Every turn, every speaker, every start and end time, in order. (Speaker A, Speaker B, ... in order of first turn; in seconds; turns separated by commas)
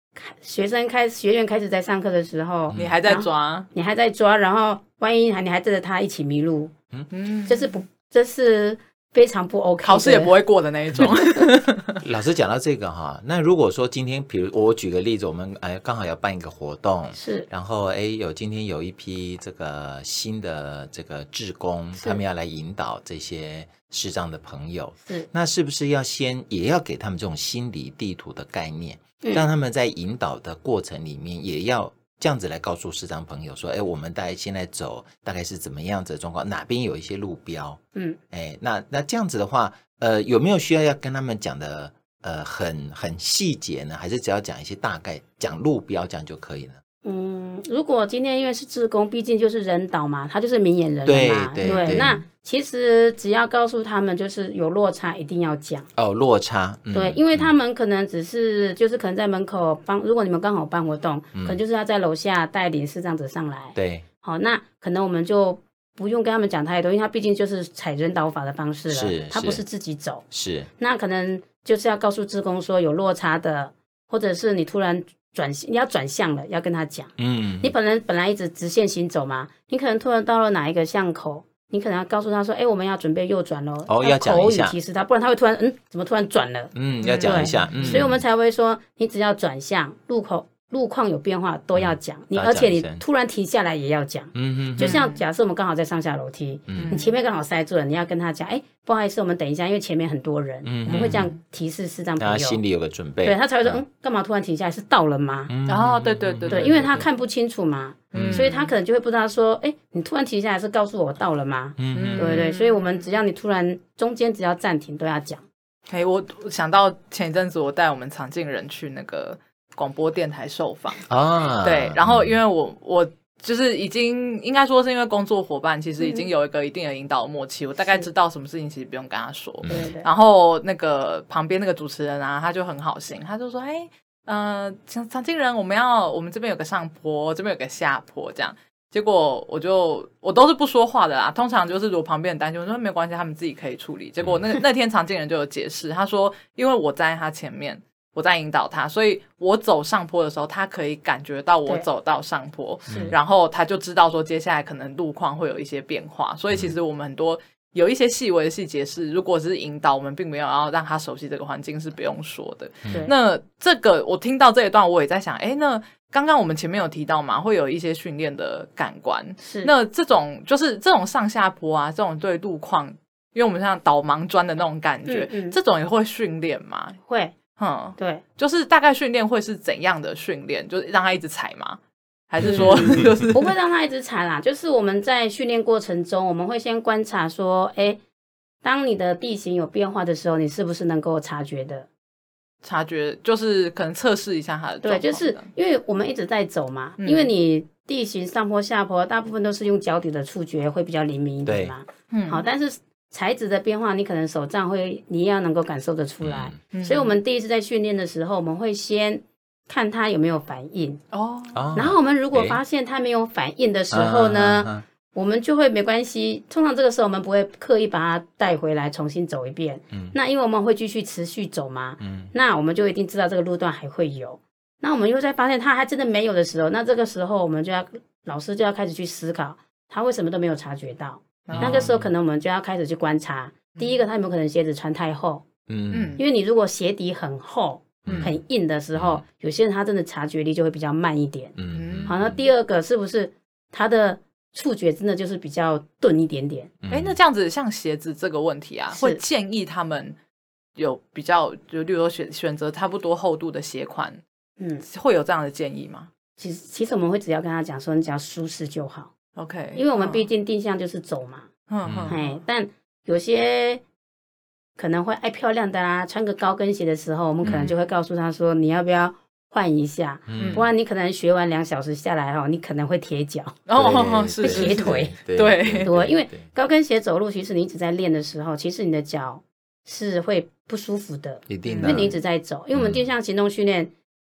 Speaker A: 0.2-6.7, Speaker B: 2.7-3.0, Speaker C: 2.7-3.7, Speaker C: 7.1-7.7, Speaker A: 7.5-10.3, Speaker C: 9.8-12.0, Speaker B: 12.0-37.8, Speaker A: 17.1-17.5, Speaker A: 22.0-22.2, Speaker B: 38.3-46.8, Speaker A: 47.0-55.9, Speaker B: 51.1-52.2, Speaker C: 51.6-52.1, Speaker B: 56.0-57.5, Speaker A: 56.9-70.2, Speaker B: 63.8-64.0, Speaker B: 68.9-69.6, Speaker B: 70.3-70.7, Speaker A: 70.8-102.6, Speaker B: 77.2-77.7, Speaker B: 83.9-84.8, Speaker B: 86.8-88.2, Speaker C: 87.0-88.0, Speaker B: 91.8-93.0, Speaker B: 94.3-95.0, Speaker C: 94.8-95.2, Speaker B: 96.7-97.0, Speaker C: 96.7-97.1, Speaker B: 100.6-101.3, Speaker C: 100.9-101.3, Speaker B: 102.2-103.8, Speaker A: 103.2-105.5, Speaker B: 105.5-107.0, Speaker C: 105.7-106.8, Speaker A: 106.5-115.4, Speaker C: 108.1-108.7, Speaker B: 108.1-108.5, Speaker B: 111.8-112.4, Speaker C: 111.9-113.1, Speaker C: 115.9-121.1, Speaker B: 121.1-122.4, Speaker C: 121.6-177.0, Speaker A: 126.0-126.3, Speaker A: 129.7-130.1, Speaker B: 152.9-153.2, Speaker B: 162.8-163.1, Speaker A: 169.4-169.7, Speaker A: 175.1-175.6, Speaker A: 177.1-177.3, Speaker C: 177.6-181.8, Speaker A: 178.0-178.2, Speaker C: 182.3-183.5, Speaker B: 182.4-183.3, Speaker A: 182.4-188.0, Speaker A: 188.6-191.9, Speaker C: 192.6-195.5, Speaker A: 194.8-211.0, Speaker C: 197.0-197.3, Speaker B: 201.4-201.7, Speaker C: 202.1-202.4, Speaker B: 206.2-206.6, Speaker C: 206.7-207.1, Speaker C: 211.1-211.7, Speaker B: 211.5-212.6, Speaker A: 211.8-235.5, Speaker B: 213.9-214.8, Speaker B: 222.0-222.3, Speaker C: 231.5-231.9, Speaker B: 231.5-232.0, Speaker B: 235.7-236.2, Speaker C: 235.9-236.2, Speaker A: 236.2-241.6, Speaker B: 238.1-238.4, Speaker C: 238.1-238.3, Speaker B: 238.9-239.2, Speaker B: 241.6-242.4, Speaker C: 241.7-242.2, Speaker A: 242.1-246.7, Speaker B: 246.8-247.2, Speaker C: 246.9-250.2, Speaker A: 248.9-249.2, Speaker C: 250.8-254.2, Speaker C: 254.8-256.1, Speaker A: 256.4-259.1, Speaker C: 259.4-260.3, Speaker A: 259.8-261.5, Speaker C: 261.7-262.4, Speaker B: 261.9-262.1, Speaker A: 262.1-263.8, Speaker A: 264.8-273.6, Speaker C: 267.4-267.8, Speaker B: 270.3-270.6, Speaker C: 270.4-270.6, Speaker C: 273.7-275.9, Speaker B: 273.8-276.5, Speaker A: 274.4-275.2, Speaker A: 275.8-283.9, Speaker B: 281.5-282.2, Speaker C: 281.7-282.1, Speaker B: 282.7-283.0